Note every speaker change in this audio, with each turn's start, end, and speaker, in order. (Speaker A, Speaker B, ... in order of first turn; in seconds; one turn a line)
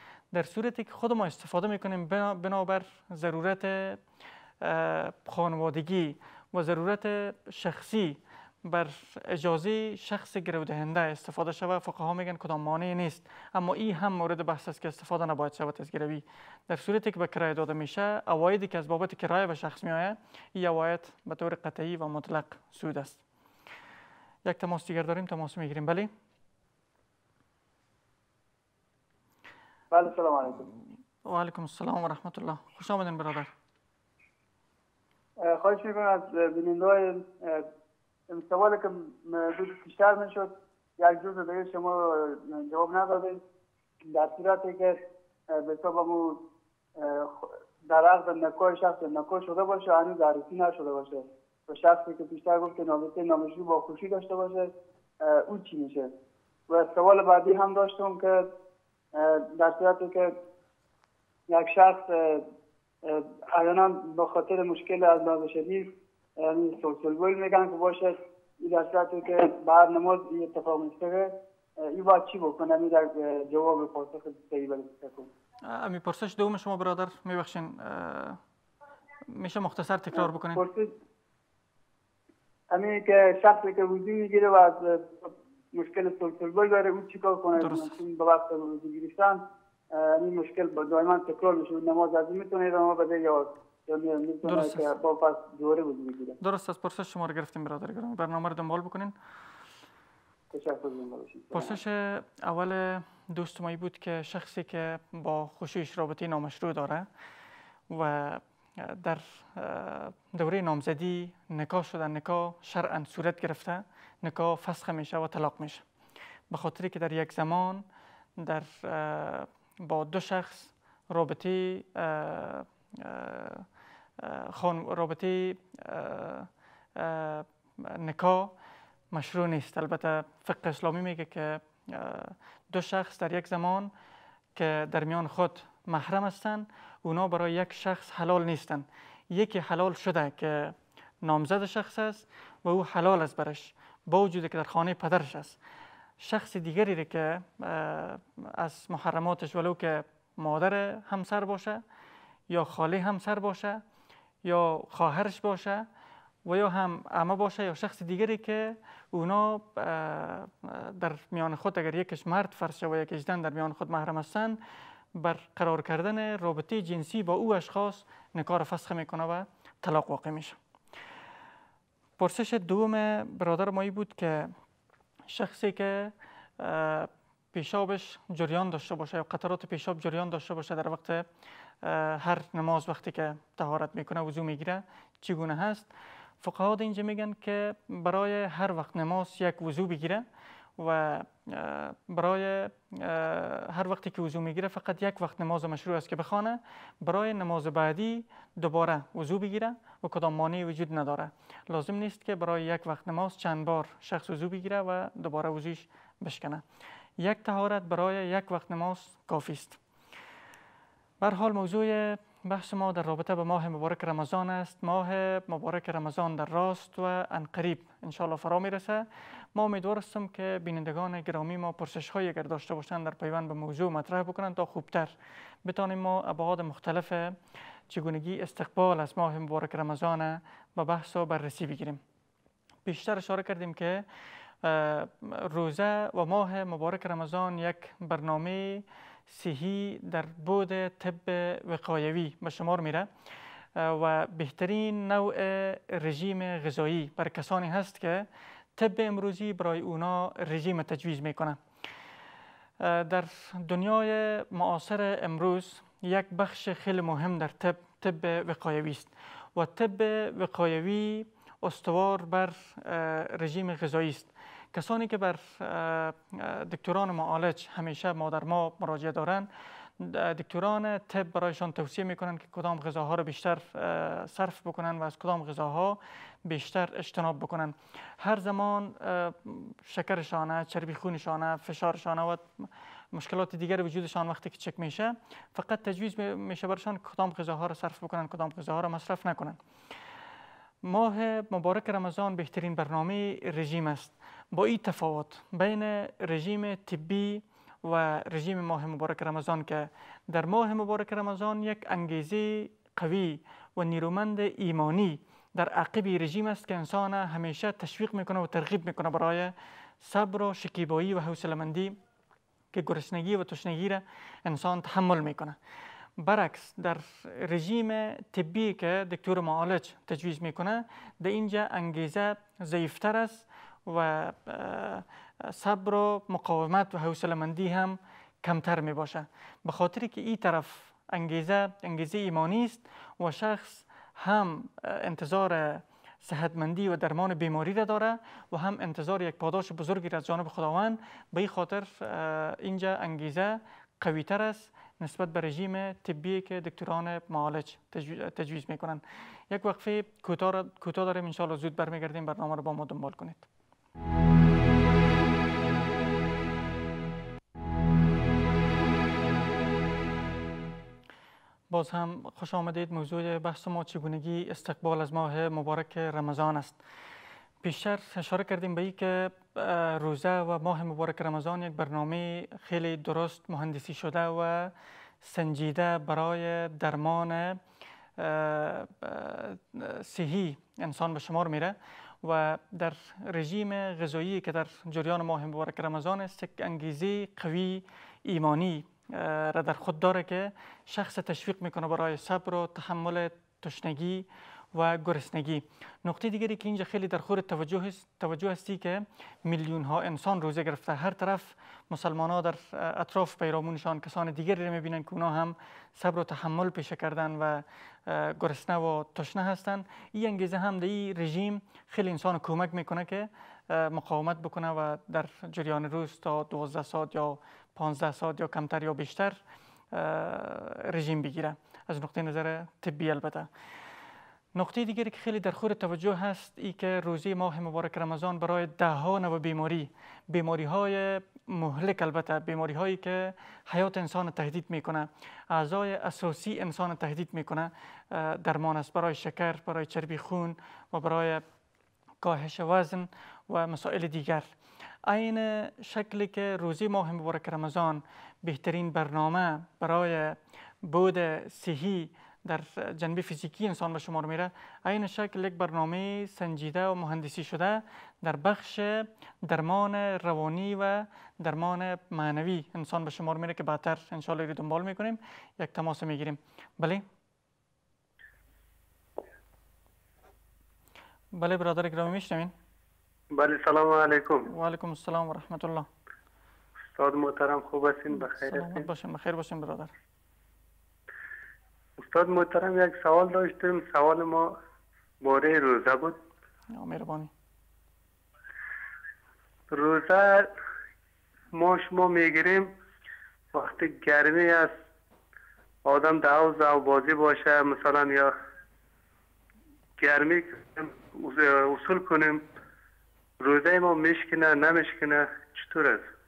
Speaker A: 0.3-4.0
Speaker A: 4.6-23.2
Speaker A: 24.4-26.1
Speaker B: 29.9-30.6
Speaker A: 31.2-33.5
Speaker B: 35.4-37.6
Speaker B: 38.3-43.4
Speaker B: 44.0-45.0
Speaker B: 45.5-46.4
Speaker B: 47.0-54.7
Speaker B: 55.2-56.1
Speaker B: 56.7-58.5
Speaker B: 59.1-60.3
Speaker B: 61.5-62.4
Speaker B: 63.0-65.9
Speaker B: 66.4-71.3
Speaker B: 71.8-75.3
Speaker A: 75.7-78.4
Speaker A: 79.3-80.6
Speaker B: 80.1-80.9
Speaker B: 82.7-89.4
Speaker A: 87.6-87.9
Speaker B: 89.9-96.4
Speaker A: 94.4-94.9
Speaker A: 96.4-99.1
Speaker B: 100.5-101.8
Speaker A: 101.5-107.1
Speaker A: 107.9-115.8
Speaker A: 116.5-117.8
Speaker A: 118.4-123.7
Speaker A: 124.2-128.5
Speaker A: 129.1-133.9
Speaker A: 134.6-145.6
Speaker A: 146.2-151.8
Speaker A: 152.5-153.8
Speaker A: 154.4-155.8
Speaker A: 156.4-164.6
Speaker A: 165.1-170.6
Speaker A: 172.2-174.5
Speaker A: 175.3-181.2
Speaker A: 181.8-185.9
Speaker A: 186.4-190.2
Speaker A: 190.8-206.6
Speaker A: 207.2-209.8
Speaker A: 211.2-227.3
Speaker A: 227.9-232.0
Speaker A: 232.8-234.0
Speaker A: 234.6-243.1
Speaker A: 243.8-251.6
Speaker A: 252.8-269.5
Speaker A: 270.0-289.6
Speaker A: 290.8-312.0
Speaker A: 312.7-315.6
Speaker A: 316.2-353.5
Speaker A: 361.7-366.8
Speaker A: 367.6-377.6
Speaker A: 378.2-419.4
Speaker A: 419.9-423.5
Speaker A: 424.5-441.4
Speaker A: 442.2-444.5
Speaker A: 445.0-467.0
Speaker A: 471.3-472.5
Speaker C: 473.3-474.5
Speaker A: 474.5-475.9
Speaker C: 476.9-478.9
Speaker A: 478.1-479.9
Speaker C: 482.0-484.5
Speaker C: 485.2-486.2
Speaker A: 486.7-487.3
Speaker C: 489.7-490.5
Speaker C: 491.5-492.7
Speaker C: 493.5-494.7
Speaker C: 495.8-498.3
Speaker C: 500.0-502.4
Speaker C: 503.4-506.1